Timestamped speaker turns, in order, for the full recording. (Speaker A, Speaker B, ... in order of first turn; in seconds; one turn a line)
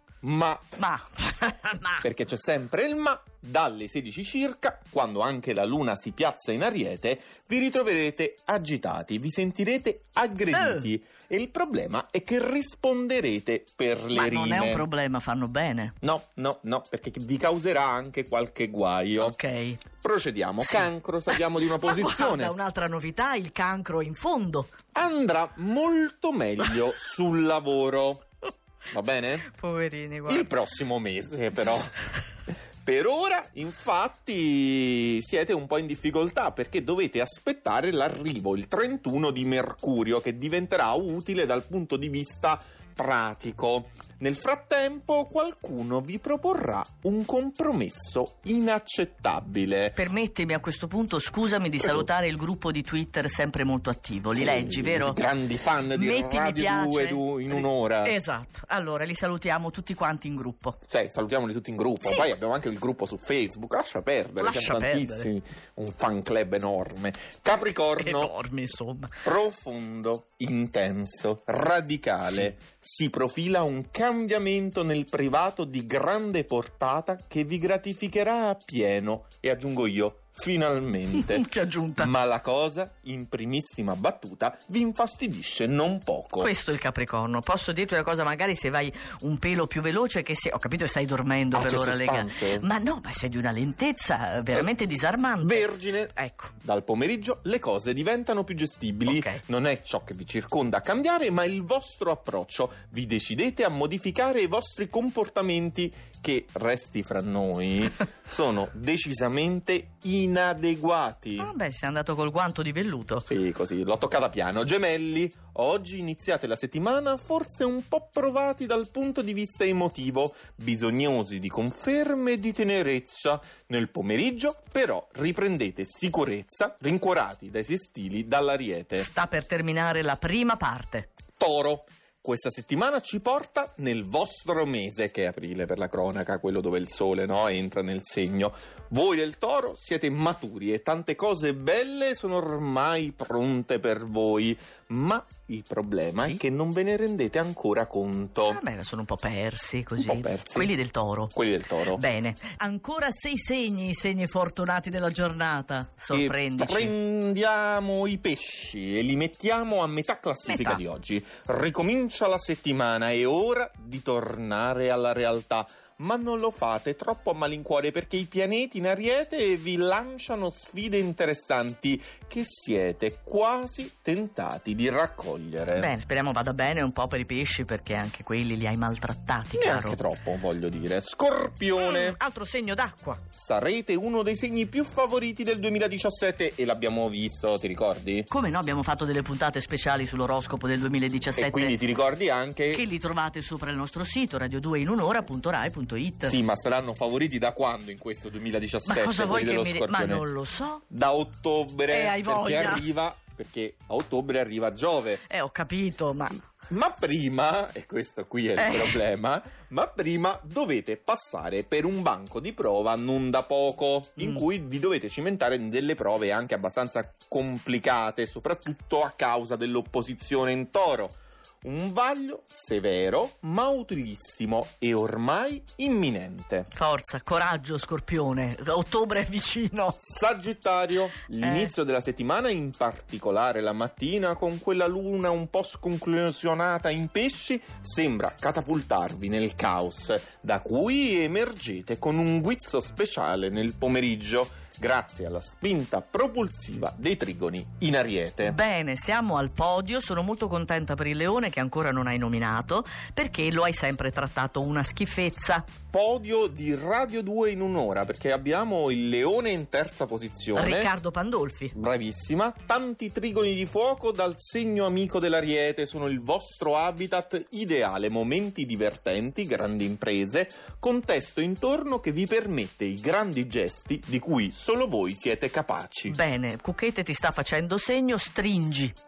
Speaker A: 0.2-0.8
Speaker B: 0.8-2.0
Speaker A: 2.0-14.9
Speaker B: 10.5-10.9
Speaker B: 14.1-15.9
Speaker A: 16.0-19.4
Speaker B: 19.2-19.8
Speaker A: 20.0-22.6
Speaker B: 20.7-24.7
Speaker A: 24.9-28.2
Speaker A: 28.9-29.5
Speaker B: 29.4-30.5
Speaker A: 30.3-50.0
Speaker B: 50.0-55.2
Speaker A: 51.8-52.1
Speaker A: 54.3-58.2
Speaker B: 56.0-60.8
Speaker A: 60.9-68.3
Speaker B: 64.4-65.3
Speaker B: 68.0-69.1
Speaker A: 69.2-81.5
Speaker B: 72.2-72.5
Speaker B: 81.2-82.1
Speaker A: 82.0-86.5
Speaker B: 86.4-96.5
Speaker A: 91.5-92.7
Speaker A: 95.4-111.5
Speaker B: 99.1-99.4
Speaker B: 111.4-113.3
Speaker A: 113.3-129.1
Speaker B: 129.0-131.1
Speaker A: 131.4-148.6
Speaker B: 148.4-151.3
Speaker A: 150.0-150.7
Speaker A: 151.3-152.0
Speaker B: 151.9-156.9
Speaker A: 156.1-175.9
Speaker B: 160.5-160.8
Speaker B: 175.8-180.0
Speaker A: 179.6-182.2
Speaker B: 181.7-183.2
Speaker A: 183.3-188.3
Speaker B: 188.3-191.8
Speaker A: 191.4-192.8
Speaker B: 192.7-196.4
Speaker A: 196.2-200.3
Speaker B: 198.9-200.8
Speaker A: 200.9-205.2
Speaker B: 201.9-202.9
Speaker B: 205.3-206.4
Speaker A: 206.7-226.7
Speaker B: 208.6-209.0
Speaker B: 226.7-230.0
Speaker A: 230.0-248.6
Speaker B: 231.4-231.7
Speaker B: 248.4-255.7
Speaker A: 255.9-260.9
Speaker B: 260.6-261.7
Speaker A: 261.8-276.2
Speaker B: 276.1-278.9